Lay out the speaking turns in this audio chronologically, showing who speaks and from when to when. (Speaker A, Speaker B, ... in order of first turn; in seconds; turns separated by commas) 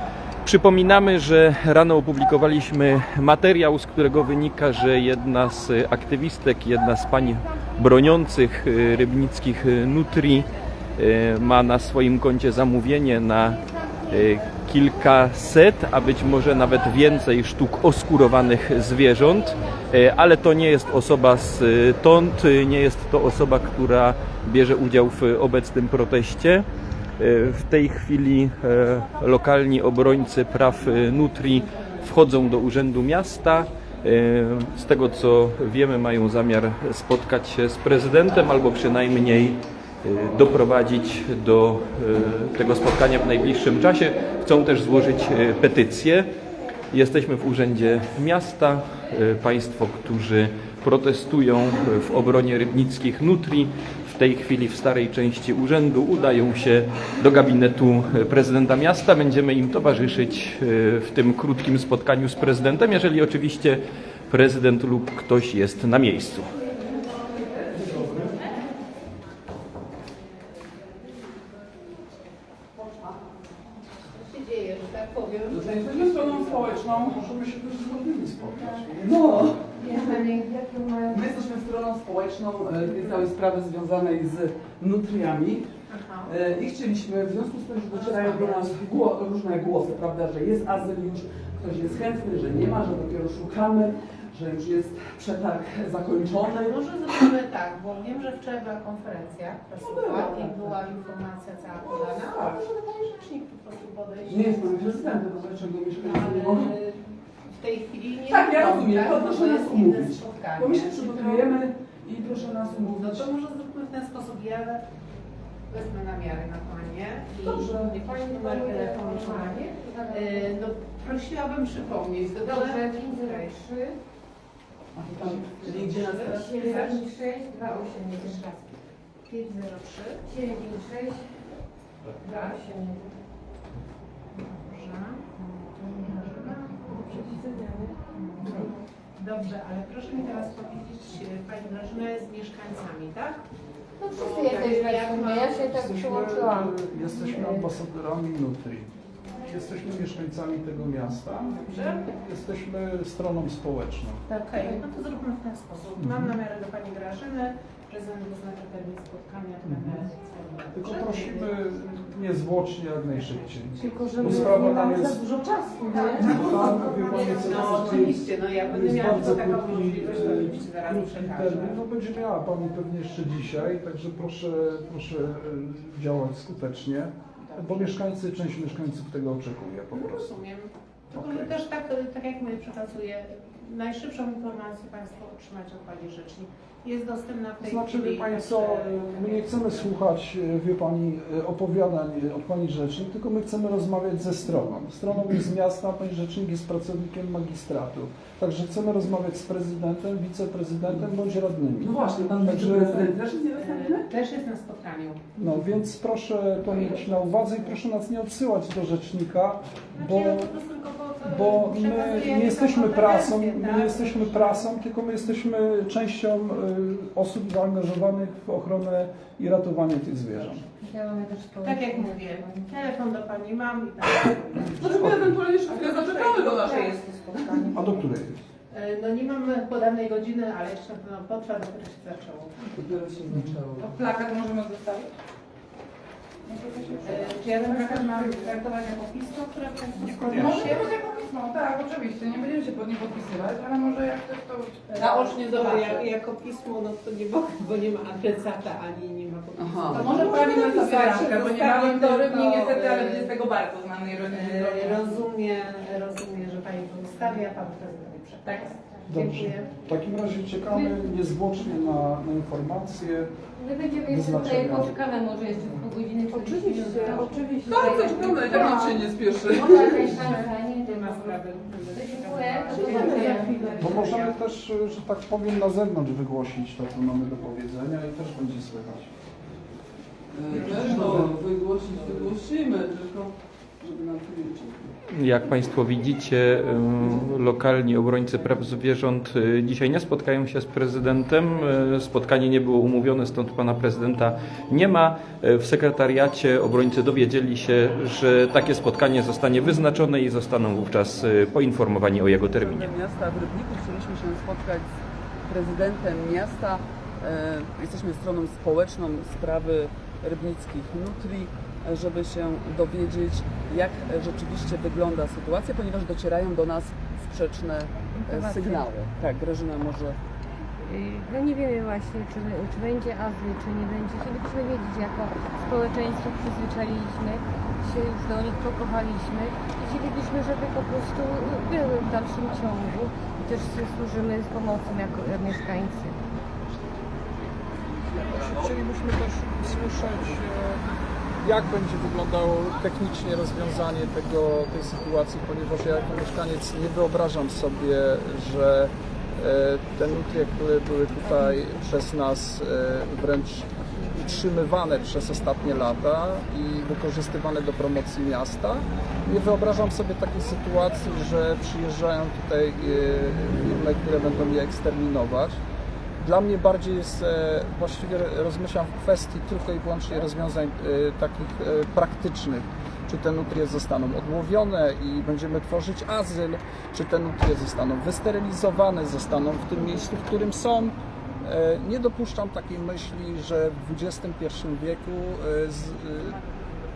Speaker A: 0.4-26.7, Speaker A: 27.2-46.3, Speaker A: 46.9-66.5, Speaker B: 67.5-68.3, Speaker B: 72.8-73.2, Speaker C: 74.1-77.0, Speaker B: 75.5-77.2, Speaker D: 76.9-79.6, Speaker B: 79.0-79.6, Speaker E: 79.8-81.3, Speaker C: 79.9-80.2, Speaker B: 81.1-85.7, Speaker C: 85.9-86.3, Speaker B: 86.2-96.8, Speaker C: 87.9-88.7, Speaker C: 96.4-105.1, Speaker B: 99.9-100.7, Speaker B: 102.3-102.6, Speaker B: 104.3-106.8, Speaker C: 105.9-111.5, Speaker B: 108.2-113.3, Speaker C: 112.7-114.8, Speaker C: 115.7-123.6, Speaker B: 117.5-117.9, Speaker E: 117.5-120.6, Speaker E: 122.4-124.0, Speaker B: 124.9-127.0, Speaker C: 125.5-127.1, Speaker E: 126.4-128.4, Speaker C: 127.9-128.7, Speaker C: 129.3-130.3, Speaker E: 130.2-131.4, Speaker E: 132.2-133.2, Speaker C: 134.3-143.4, Speaker E: 135.8-138.6, Speaker D: 138.4-138.7, Speaker E: 144.0-147.7, Speaker C: 144.1-145.7, Speaker D: 145.7-154.2, Speaker C: 151.4-152.1, Speaker E: 154.3-154.9, Speaker C: 154.3-161.6, Speaker D: 156.0-156.3, Speaker D: 159.7-160.1, Speaker D: 160.7-165.2, Speaker C: 163.1-171.8, Speaker E: 163.8-166.4, Speaker D: 166.2-180.2, Speaker C: 177.5-178.0, Speaker C: 179.9-189.9, Speaker D: 181.1-181.5, Speaker D: 187.6-203.1, Speaker B: 201.8-204.1, Speaker C: 203.6-205.2, Speaker D: 205.4-210.5, Speaker C: 209.9-214.8, Speaker D: 211.2-220.6, Speaker E: 220.8-222.8, Speaker C: 221.6-227.8, Speaker B: 224.8-226.5, Speaker D: 224.8-225.3, Speaker D: 227.7-228.4, Speaker C: 228.7-232.6, Speaker B: 232.6-234.0, Speaker D: 233.3-233.6, Speaker F: 233.9-235.1, Speaker F: 236.5-236.8, Speaker C: 237.0-241.0, Speaker D: 240.0-240.9, Speaker F: 241.1-244.6, Speaker C: 244.9-253.4, Speaker B: 249.6-250.3, Speaker F: 251.4-252.9, Speaker F: 253.6-254.7, Speaker C: 254.3-259.7, Speaker D: 259.1-263.4, Speaker E: 260.7-261.0, Speaker E: 263.6-274.2, Speaker D: 264.0-265.0, Speaker C: 266.4-267.5, Speaker B: 266.7-267.1, Speaker B: 267.6-270.4, Speaker C: 268.3-268.9, Speaker C: 269.5-274.5, Speaker B: 272.7-273.4, Speaker D: 273.8-279.1, Speaker B: 280.3-284.9, Speaker C: 280.6-280.9, Speaker D: 280.7-281.2, Speaker A: 285.1-302.9, Speaker B: 302.2-320.2, Speaker E: 318.1-318.9, Speaker E: 320.8-336.2, Speaker D: 338.2-340.8, Speaker D: 341.4-365.6, Speaker D: 366.2-386.4